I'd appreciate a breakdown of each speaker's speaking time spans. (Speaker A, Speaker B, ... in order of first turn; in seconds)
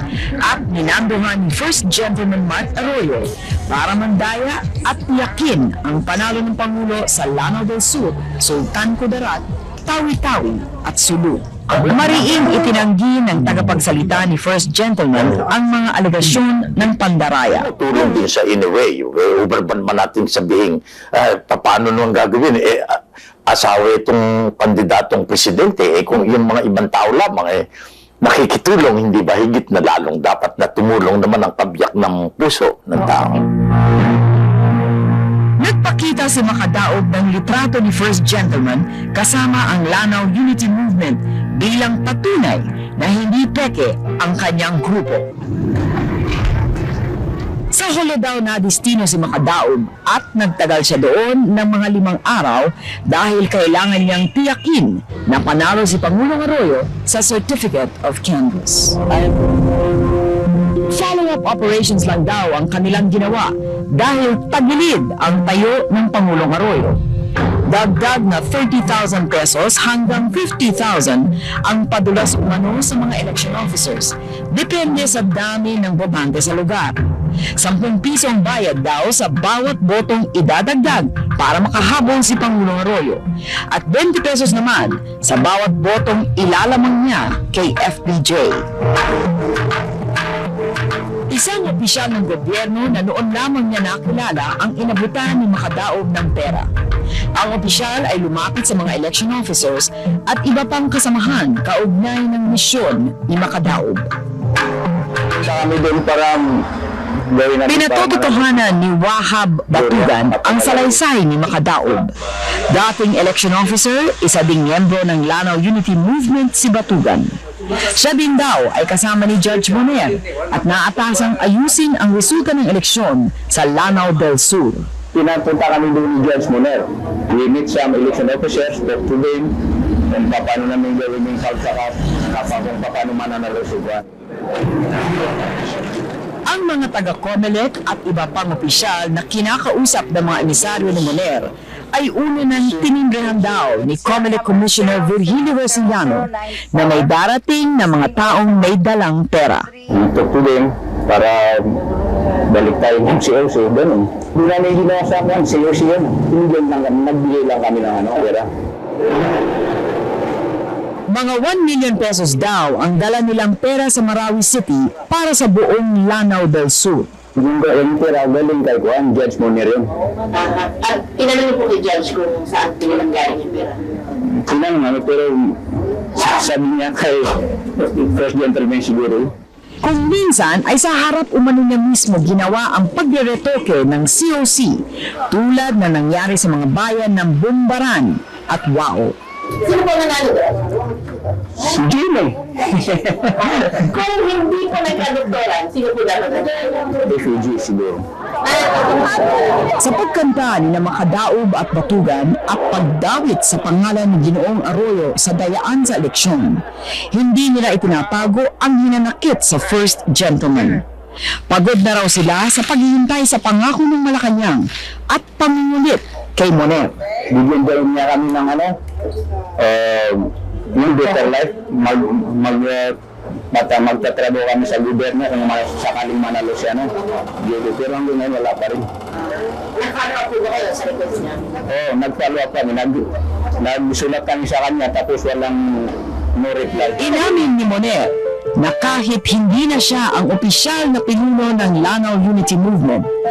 Speaker A: 0.4-17.7, 35.6-45.2, 47.7-59.1, 60.9-67.0, 67.7-76.9, 77.6-88.7, 91.3-96.7, 97.4-104.1, 107.7-112.1, 112.7-124.9, 136.5-149.7, 161.1-167.1, 179.8-189.2, 199.8-206.6, 207.1-210.8, 211.5-216.9, 237.0-243.1
Speaker B: 17.5-23.0, 23.5-27.6, 28.2-33.5
Speaker C: 105.4-106.6, 107.2-108.6, 109.7-111.0, 125.1-129.5, 130.1-134.0, 149.9-151.8, 152.5-158.5, 167.4-169.9, 174.2-175.6, 176.2-179.3, 191.6-193.3, 197.1-198.1, 217.3-218.7, 219.6-222.9, 223.5-228.9, 231.7-237.1
Speaker D: 170.3-173.8, 189.6-190.7, 193.4-197.0, 198.4-199.3, 229.8-231.5